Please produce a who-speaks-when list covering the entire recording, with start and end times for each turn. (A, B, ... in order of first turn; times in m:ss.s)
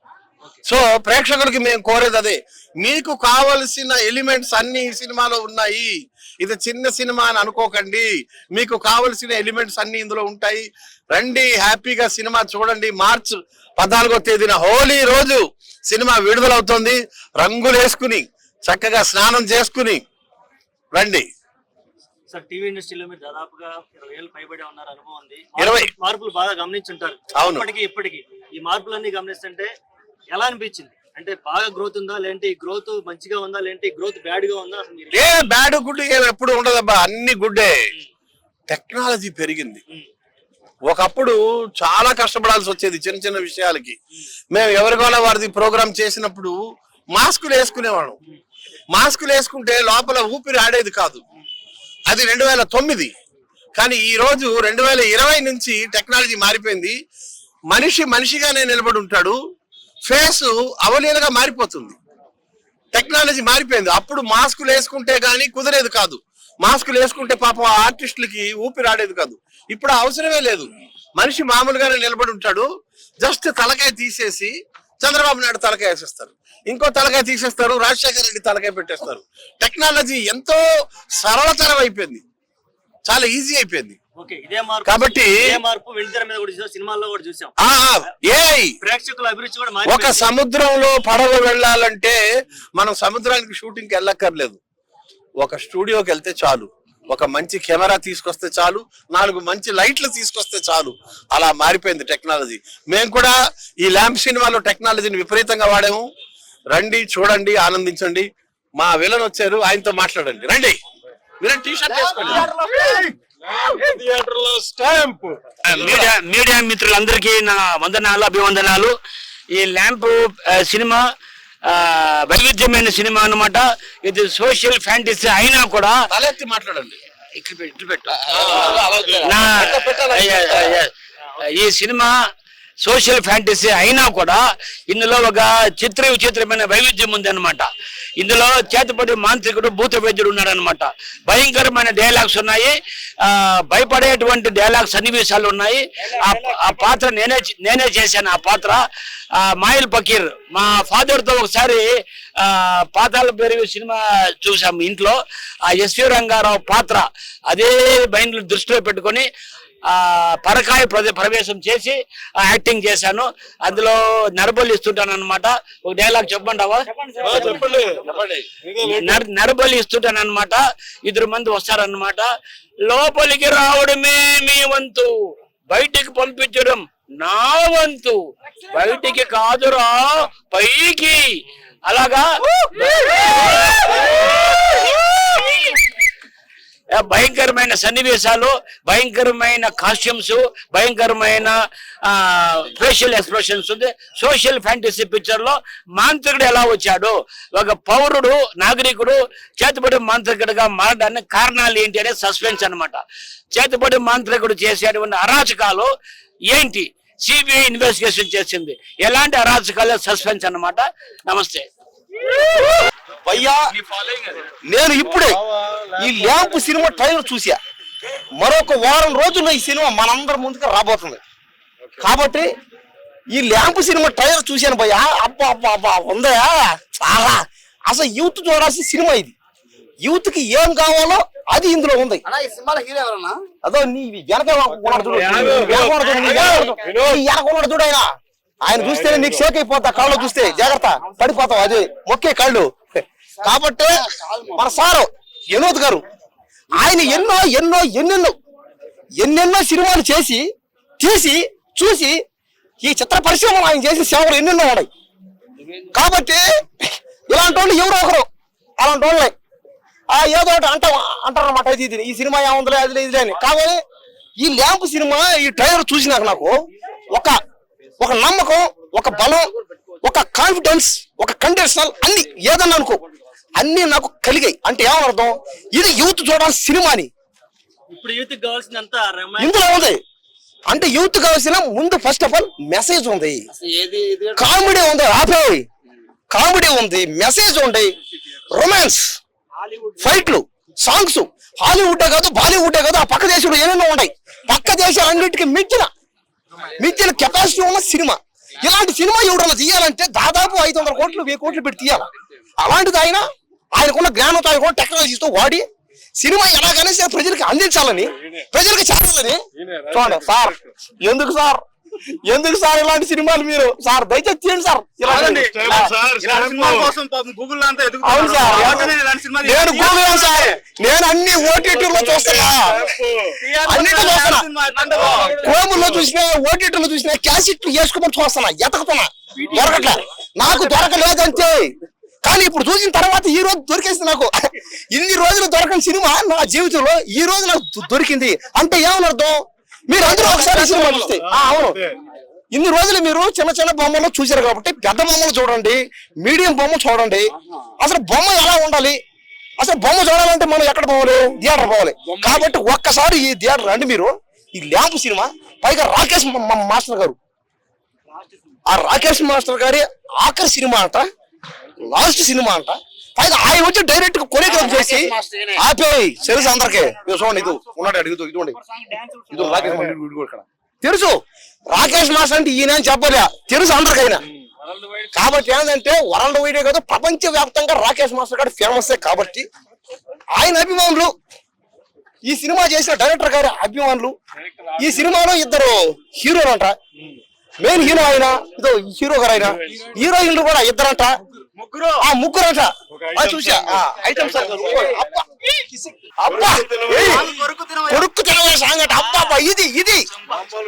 0:00.6-0:20.0 A
0:20.9-0:21.2 A
0:22.3-0:29.7 B
0:25.6-0:25.9 A
0:27.3-0:27.7 A
0:30.3-0:35.4 B
0:35.1-0:37.8 A
0:38.7-0:39.8 A
0:40.9-0:44.0 A
0:44.5-0:46.6 A
0:47.1-0:48.2 A
0:48.9-0:51.2 A
0:52.1-0:53.1 A
0:53.8-0:57.0 A
0:57.7-0:59.4 A
1:00.1-1:02.0 A
1:02.9-1:12.6 A
1:13.2-1:20.6 A
1:21.2-1:22.2 A
1:23.1-1:24.0 A
1:24.2-1:27.5 B
1:24.8-1:25.6 A
1:27.6-1:28.7 A
1:28.8-1:30.3 B
1:29.8-1:32.2 A
1:32.8-1:34.6 A
1:35.4-1:46.0 A
1:46.7-1:50.8 A
1:51.4-1:52.5 A
1:51.9-1:53.1 C
1:53.8-1:55.3 D
1:55.6-1:58.9 E
1:59.5-2:01.1 E
2:01.6-2:06.0 E
2:06.1-2:07.0 A
2:07.4-2:10.9 E
2:08.3-2:10.2 A
2:11.4-2:12.1 E
2:12.8-2:17.7 E
2:18.2-2:28.8 E
2:29.4-2:31.9 E
2:32.4-2:35.2 E
2:35.7-2:39.3 E
2:39.9-2:47.6 E
2:48.8-2:52.3 E
2:52.8-3:05.7 E
3:07.0-3:23.0 E
3:23.5-3:25.9 E
3:26.5-3:31.7 E
3:33.2-3:33.7 F
3:34.6-3:35.4 F
3:35.8-3:36.5 C
3:36.0-3:37.6 F
3:38.4-3:41.2 F
3:42.0-3:42.5 F
3:43.3-3:49.3 F
3:50.0-3:52.2 F
3:52.2-3:53.4 C
3:53.6-3:58.1 F
3:55.0-3:57.0 C
3:58.6-4:02.7 F
4:00.1-4:00.6 C
4:03.4-4:04.7 C
4:03.4-4:06.0 F
4:06.7-4:08.4 F
4:06.9-4:07.2 C
4:09.2-4:12.2 F
4:12.8-4:14.9 F
4:15.9-4:18.3 F
4:18.8-4:19.3 F
4:20.1-4:23.8 F
4:24.4-4:26.6 F
4:27.1-4:27.4 F
4:28.0-4:33.0 F
4:33.6-4:37.1 F
4:37.9-4:39.7 B
4:39.4-4:40.0 F
4:40.7-4:43.4 F
4:43.5-4:44.5 C
4:44.3-4:45.6 F
4:46.3-4:47.9 F
4:48.5-4:49.2 F
4:50.0-4:55.9 F
4:56.7-5:05.6 F
5:06.2-5:11.6 F
5:09.6-5:10.3 D
5:12.2-5:15.9 F
5:15.0-5:20.5 G
5:15.2-5:16.0 C
5:18.0-5:23.0 F
5:23.4-5:25.6 G
5:23.6-5:31.7 F
5:24.9-5:25.5 C
5:29.4-5:29.8 G
5:32.2-5:41.8 F
5:40.0-5:41.9 C
5:42.5-5:49.0 F
5:49.6-5:57.2 F
5:52.1-5:52.5 C
5:58.6-6:01.1 F
6:01.8-6:08.6 F
6:04.4-6:05.6 C
6:06.2-6:10.4 C
6:09.3-6:10.0 F
6:10.8-6:14.2 F
6:15.1-6:19.5 F
6:20.3-6:21.1 F
6:22.2-6:24.2 F
6:24.8-6:26.8 F
6:27.6-6:31.1 F
6:32.0-6:35.2 F
6:34.1-6:34.8 C
6:36.2-6:37.3 F
6:36.9-6:38.0 G
6:37.9-6:40.0 F